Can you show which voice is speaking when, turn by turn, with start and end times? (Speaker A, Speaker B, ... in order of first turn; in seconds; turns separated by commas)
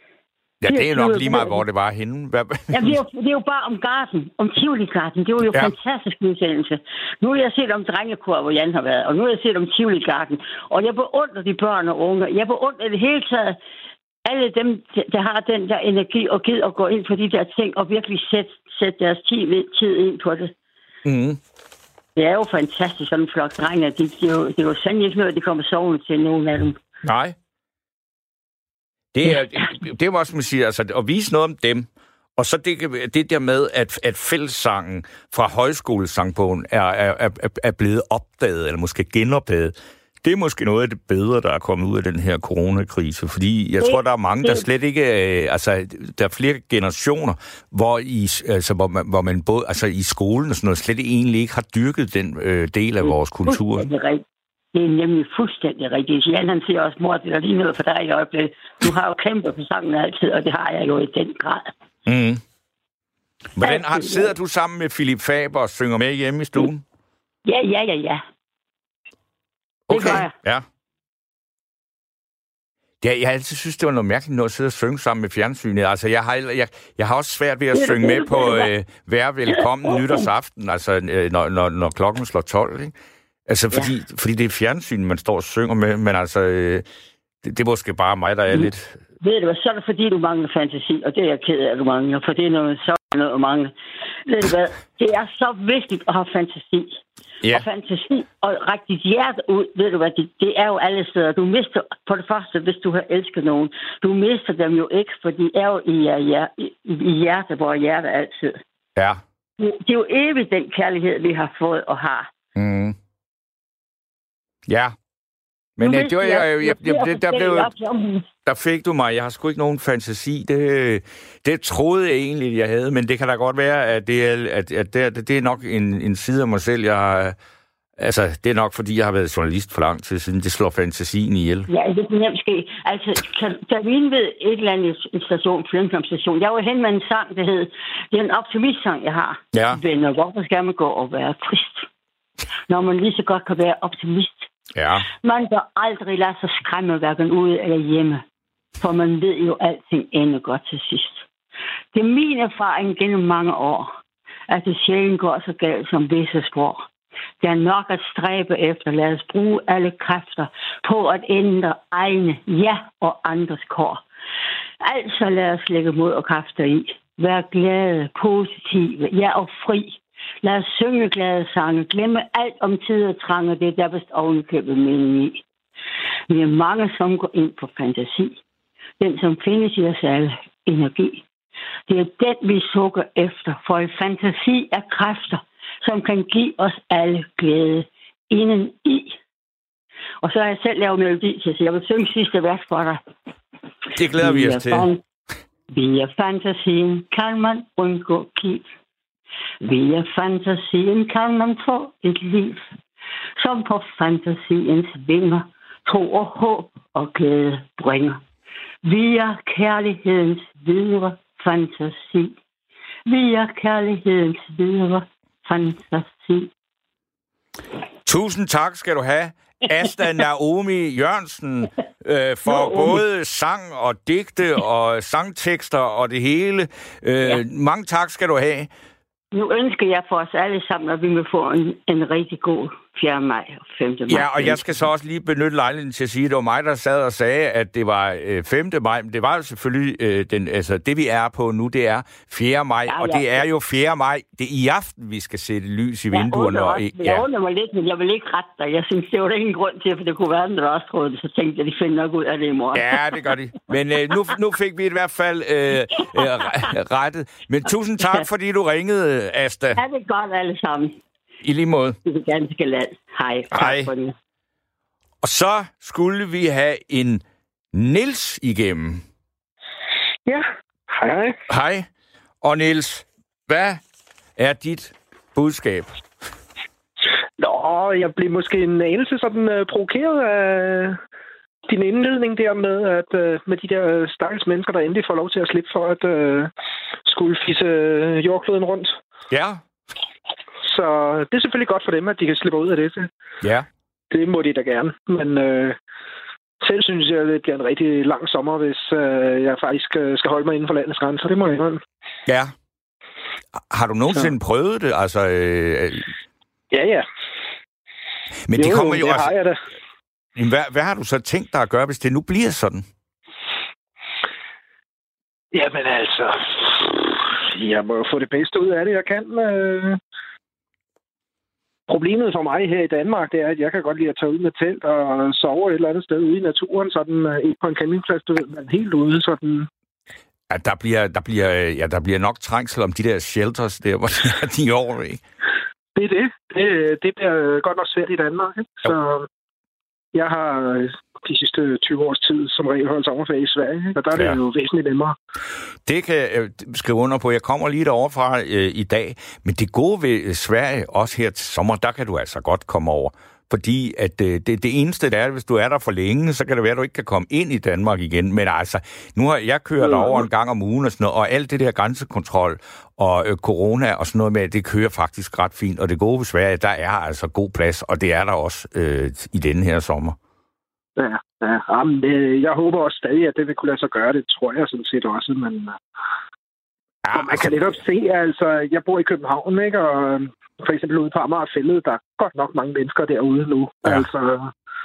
Speaker A: 0.6-3.0, Speaker B: 0.7-1.6, Speaker B: 2.7-13.6, Speaker B: 14.2-20.5, Speaker A: 21.1-21.4, Speaker B: 22.2-26.8, Speaker A: 27.0-27.4, Speaker A: 29.1-53.9, Speaker B: 43.8-44.6, Speaker B: 53.5-54.2, Speaker B: 54.7-61.7, Speaker A: 62.1-62.4, Speaker A: 63.5-66.8, Speaker B: 63.6-64.3, Speaker B: 67.5-68.2, Speaker A: 69.9-70.7, Speaker B: 69.9-70.3, Speaker A: 73.0-82.9, Speaker B: 77.7-78.7, Speaker A: 83.5-86.8, Speaker A: 87.4-89.0, Speaker B: 89.2-93.7, Speaker B: 94.3-108.6, Speaker A: 109.0-109.2, Speaker B: 109.6-112.3, Speaker A: 112.5-113.0, Speaker A: 114.7-115.0, Speaker A: 115.8-117.7, Speaker B: 115.8-118.3, Speaker A: 118.5-127.4, Speaker A: 128.0-131.7, Speaker B: 131.7-141.9, Speaker A: 139.5-139.8, Speaker B: 142.7-144.5, Speaker A: 144.8-145.1, Speaker B: 145.2-148.2, Speaker B: 148.8-151.3, Speaker B: 151.9-153.9, Speaker B: 154.5-156.8, Speaker B: 157.4-164.0, Speaker B: 164.8-175.4, Speaker B: 176.3-178.4, Speaker B: 179.0-181.2, Speaker B: 181.9-189.2, Speaker B: 190.2-193.0, Speaker A: 193.9-194.9, Speaker B: 194.2-195.0, Speaker B: 195.7-198.7, Speaker B: 199.6-202.7, Speaker B: 203.4-208.2, Speaker B: 208.8-212.4, Speaker B: 213.1-216.5, Speaker A: 218.1-228.7, Speaker B: 222.5-223.0, Speaker B: 229.3-234.7, Speaker A: 234.1-247.2, Speaker B: 242.9-243.4, Speaker B: 246.1-252.9, Speaker A: 252.7-259.8, Speaker B: 259.8-261.0, Speaker A: 261.4-262.0, Speaker B: 262.1-264.1, Speaker A: 263.5-263.9, Speaker A: 265.2-269.0, Speaker C: 270.3-271.4, Speaker A: 271.5-271.9, Speaker A: 272.4-273.8, Speaker A: 274.4-276.0, Speaker C: 277.4-281.0, Speaker C: 281.7-286.5, Speaker C: 287.1-289.0, Speaker A: 289.3-289.6, Speaker C: 290.6-293.1, Speaker A: 293.4-293.7, Speaker C: 294.1-295.8, Speaker C: 296.6-301.8, Speaker A: 302.3-302.5, Speaker A: 303.6-306.1, Speaker C: 306.7-307.1, Speaker A: 308.5-309.3, Speaker C: 308.6-309.6, Speaker A: 310.4-312.9, Speaker C: 315.5-320.0, Speaker C: 321.9-329.7, Speaker A: 330.5-335.2, Speaker C: 336.0-339.3, Speaker C: 340.1-345.2, Speaker A: 345.9-370.2, Speaker C: 359.8-360.2, Speaker C: 371.0-375.8, Speaker A: 377.0-377.5, Speaker C: 377.1-384.5